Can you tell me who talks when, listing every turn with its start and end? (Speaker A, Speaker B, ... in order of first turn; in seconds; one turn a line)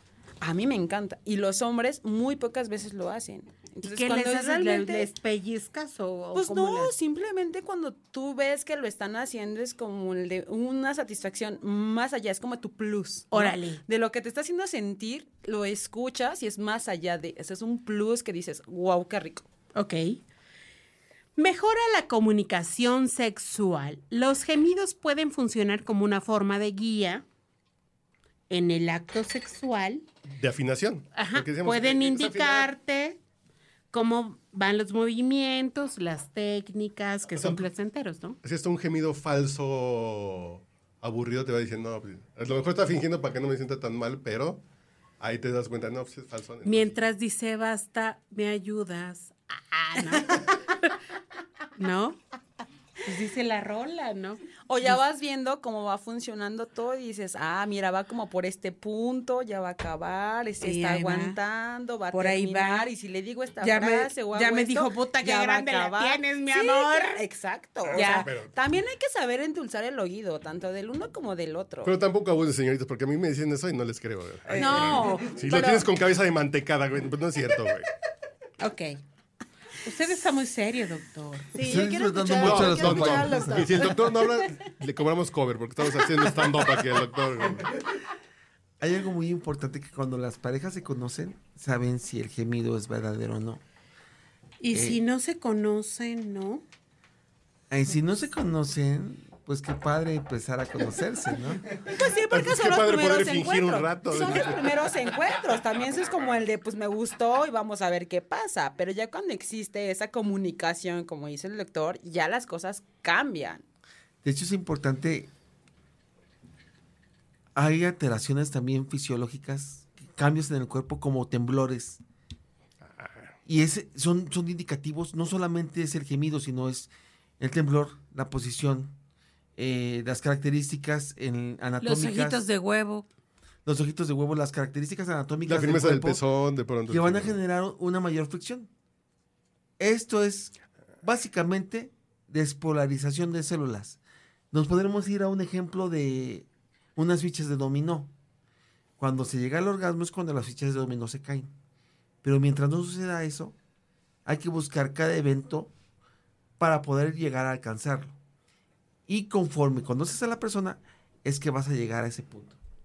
Speaker A: 0.4-5.1
Speaker B: 3.8-6.9
Speaker A: 6.3-19.5
Speaker B: 13.3-13.8
Speaker B: 19.7-20.2
Speaker B: 21.4-27.2
Speaker B: 28.5-30.0
Speaker C: 30.3-32.7
Speaker B: 31.1-33.2
Speaker B: 33.9-38.4
Speaker C: 38.4-44.6
Speaker C: 45.2-47.0
Speaker B: 46.6-51.0
Speaker B: 51.8-52.2
Speaker B: 53.0-55.0
Speaker A: 54.7-71.9
Speaker B: 60.6-61.4
Speaker B: 62.1-62.9
Speaker B: 63.6-67.2
Speaker C: 67.9-68.5
Speaker B: 67.9-68.3
Speaker C: 71.8-77.9
Speaker A: 74.5-75.8
Speaker B: 74.5-75.8
Speaker B: 78.6-79.0
Speaker B: 79.8-81.5
Speaker A: 81.5-84.5
Speaker D: 81.6-83.9
Speaker C: 82.4-87.8
Speaker D: 88.8-93.6
Speaker B: 94.6-96.6
Speaker D: 94.7-95.0
Speaker D: 97.7-101.8
Speaker A: 101.8-113.6
Speaker C: 102.3-104.7
Speaker D: 114.2-115.3
Speaker D: 117.5-122.0
Speaker C: 122.8-123.3
Speaker D: 123.5-128.9
Speaker D: 129.6-132.5
Speaker B: 131.8-133.1
Speaker D: 133.6-136.2
Speaker C: 135.5-137.3
Speaker D: 136.9-138.7
Speaker D: 139.8-144.0
Speaker D: 144.5-148.1
Speaker D: 149.0-151.5
Speaker D: 152.2-153.6
Speaker D: 154.2-155.7
Speaker D: 156.6-158.2
Speaker D: 159.1-162.6